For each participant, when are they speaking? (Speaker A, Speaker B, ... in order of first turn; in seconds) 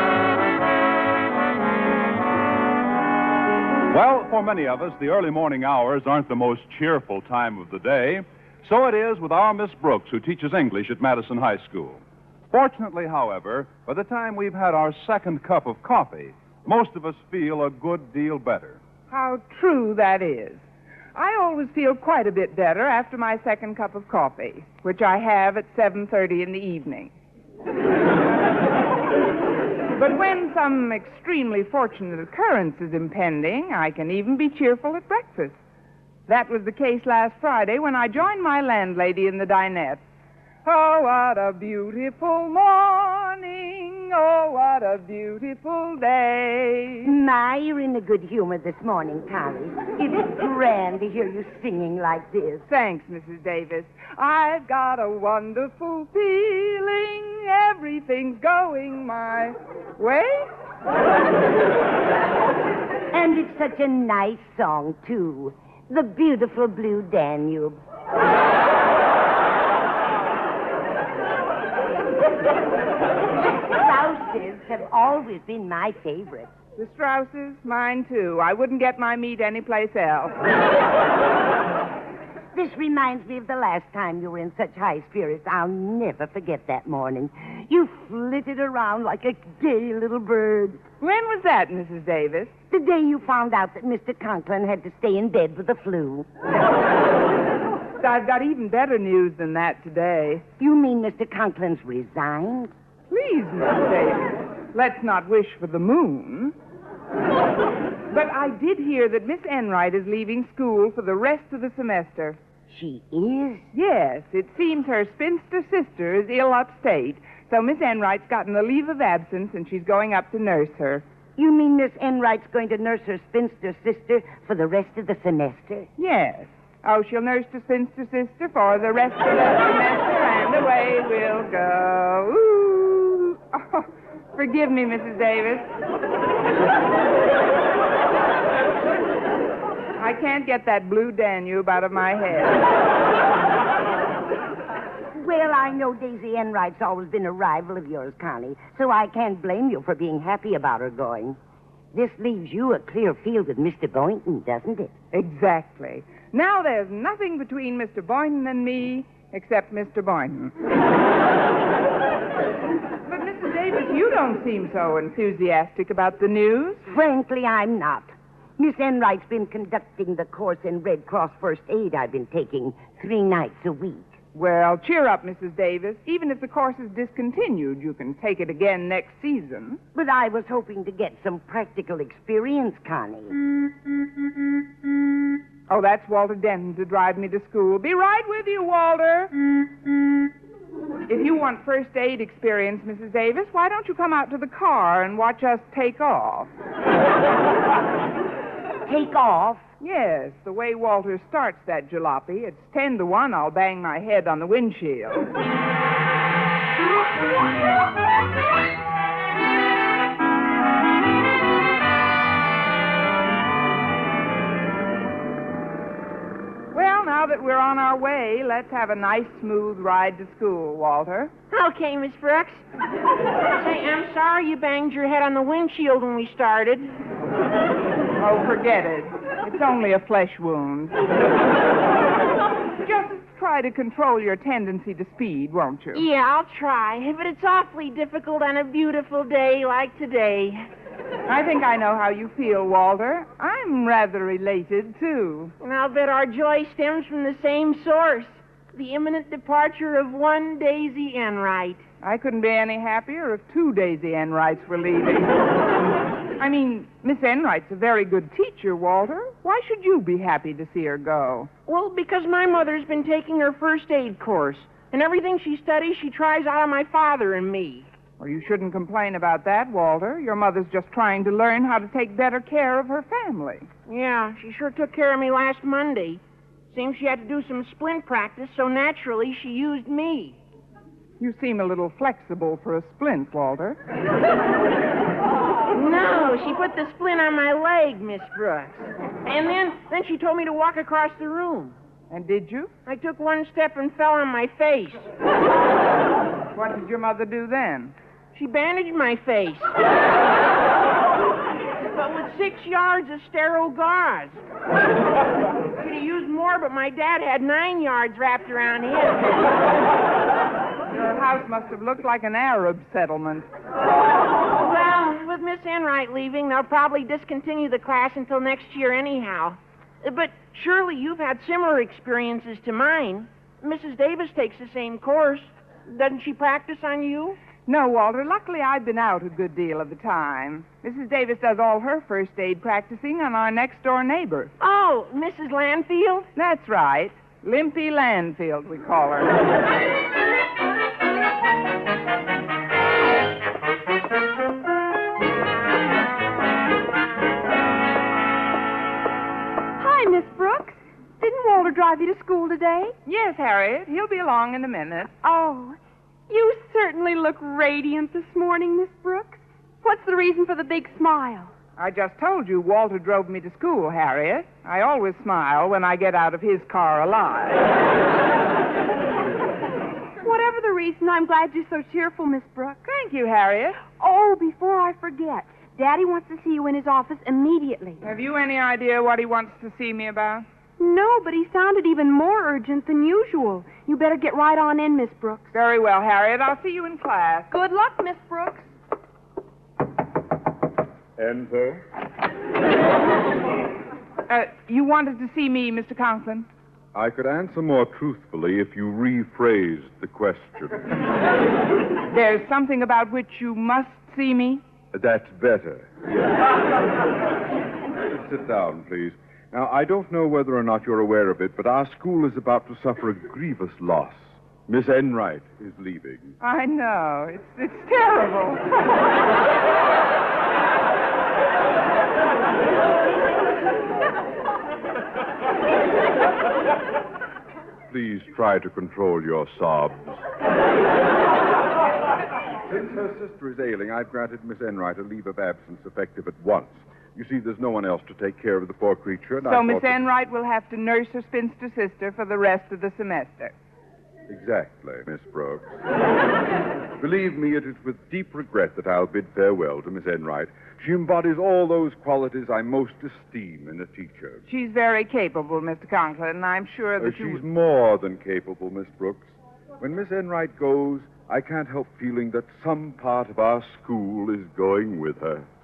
Speaker A: 3.9-18.8
Speaker B: 19.1-20.6, 21.1-27.1, 29.9-35.6, 36.3-40.0, 40.6-47.1, 52.7-60.5, 76.8-80.5, 91.0-92.5, 98.0-100.5, 103.1-106.5, 108.1-112.4, 113.7-121.0, 126.0-135.7, 140.0-142.7, 155.1-160.5, 163.1-166.8, 174.3-179.8, 185.7-189.3, 191.1-196.5, 199.8-205.3, 216.7-221.3, 228.2-231.0, 232.8-236.0, 241.3-245.6, 252.0-255.3, 256.4-261.5, 268.2-273.7, 281.2-283.8, 292.1-292.7, 296.6-297.9, 310.9-313.5, 327.6-334.5, 336.4-339.4, 353.1-355.1, 361.8-367.8, 372.9-373.8, 378.0-380.5, 385.5-387.5, 394.3-396.5, 402.1-404.6, 416.4-418.6, 439.4-443.5, 454.5-457.4
Speaker C: 47.0-52.6, 63.1-67.8, 73.7-76.5, 82.5-90.9, 92.7-96.3, 100.6-102.7, 112.7-113.7, 121.4-125.9, 145.1-151.4, 151.9-154.9, 166.9-174.2, 179.9-183.4, 198.9-199.7
Speaker D: 221.5-222.6, 223.6-226.9, 235.9-240.7, 245.6-251.8, 261.7-267.9, 273.9-280.4, 285.7-291.8, 292.9-295.1, 298.3-299.7, 301.9-304.4, 305.8-309.4, 314.5-327.4, 334.6-336.3
Speaker E: 349.8-352.9, 355.2-355.8, 356.3-361.5, 370.2-372.8, 373.8-378.1, 380.8-385.5, 387.5-388.7
Speaker F: 391.2-391.8, 396.9-401.0, 404.9-406.4, 408.1-416.4, 427.9-430.2, 432.6-440.0, 444.3-445.8, 447.0-454.4, 457.0-465.5